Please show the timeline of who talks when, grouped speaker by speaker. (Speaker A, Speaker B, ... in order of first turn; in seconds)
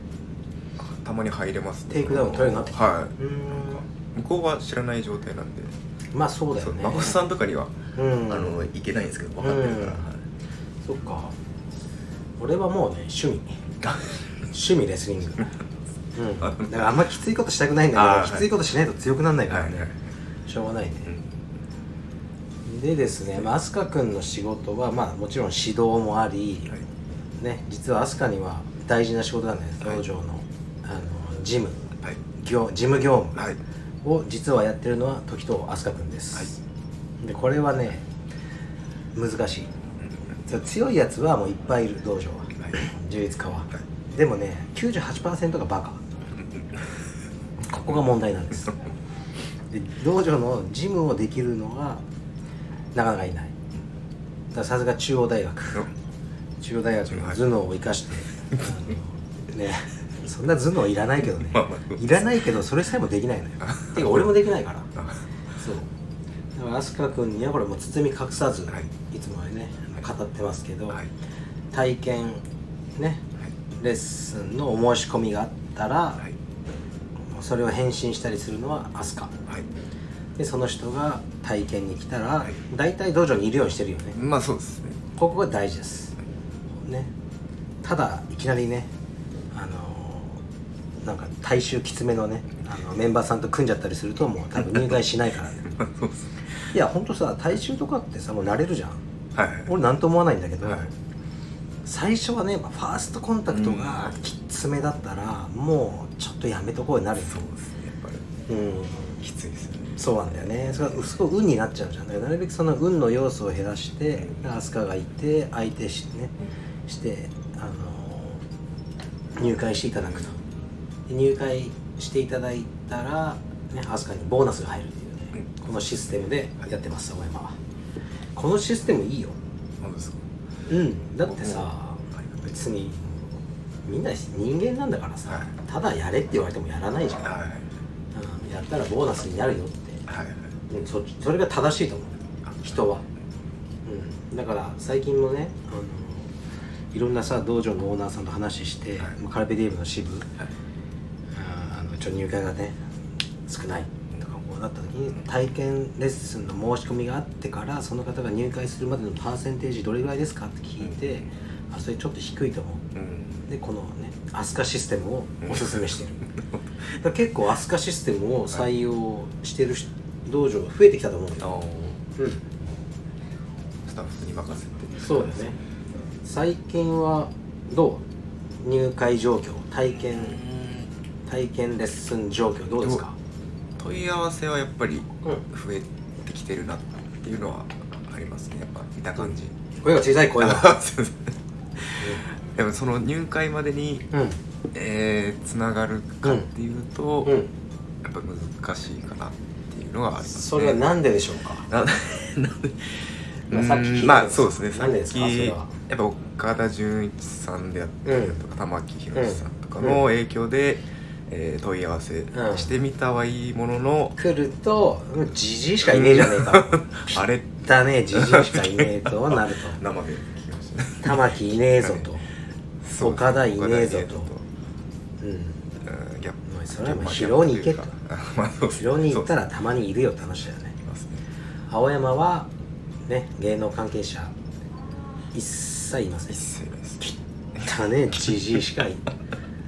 Speaker A: 0.8-5.8, 6.6-7.8, 8.3-10.2, 13.8-14.3, 16.4-17.0, 17.9-18.5, 19.5-20.0, 21.1-21.4, 57.1-57.4, 61.4-62.4, 63.6-64.4, 65.0-65.2, 84.2-85.0, 94.6-94.9, 95.7-96.5, 99.3-99.7, 100.6-100.9, 103.5-104.2, 107.2-108.3, 109.2-111.1, 114.2-114.5, 120.0-120.3, 129.8-130.2, 131.3-132.5, 137.2-137.7, 140.1-140.5, 162.9-163.5, 165.4-166.6, 171.4-172.0, 173.9-175.5, 180.2-180.9, 182.8-183.0, 183.8-189.6, 190.3-191.4, 192.6-194.1, 194.7-197.4, 198.0-200.9, 201.7-214.2, 215.8-222.1, 222.8-224.5, 225.8-229.3, 230.8-231.2, 236.3-237.1, 237.6-238.7
Speaker B: 1.9-3.9, 6.1-7.2, 8.0-8.7, 9.4-10.1, 10.8-11.3, 12.4-13.6, 14.5-15.5, 16.1-19.9, 20.5-21.1, 22.7-26.8, 27.4-33.4, 34.0-36.6, 37.2-38.1, 39.1-39.7, 40.5-46.0, 47.6-48.8, 49.7-52.0, 52.9-53.5, 54.5-55.9, 56.6-64.9, 65.6-65.9, 66.6-71.0, 71.7-72.4, 73.0-73.2, 73.8-76.2, 77.3-79.3, 80.4-84.2, 85.2-86.2, 86.8-87.1, 87.8-88.9, 89.5-90.4, 91.0-95.8, 96.7-99.0, 99.7-100.9, 101.8-107.4, 108.5-109.2, 110.0-116.4, 116.9-118.4, 119.4-120.4, 121.1-127.6, 128.3-129.4, 130.7-137.4, 138.1-140.0, 140.7-143.0, 143.9-146.3, 146.9-150.3, 151.3-152.8, 153.5-162.9, 163.5-166.2, 167.0-171.6, 172.2-172.4, 175.0-175.6, 176.2-178.1, 178.6-180.4, 181.3-183.2, 189.2-190.8, 192.0-192.3, 194.1-194.4, 196.2-196.5, 197.2-197.5, 200.2-201.7, 203.5-205.8, 208.1-208.4, 209.1-210.0, 212.3-212.8, 214.2-219.8, 221.0-222.3, 223.0-224.3, 225.2-225.7, 226.4-227.9, 228.8-230.8, 231.7-232.5, 233.1-234.3, 235.3-236.4, 237.0-239.1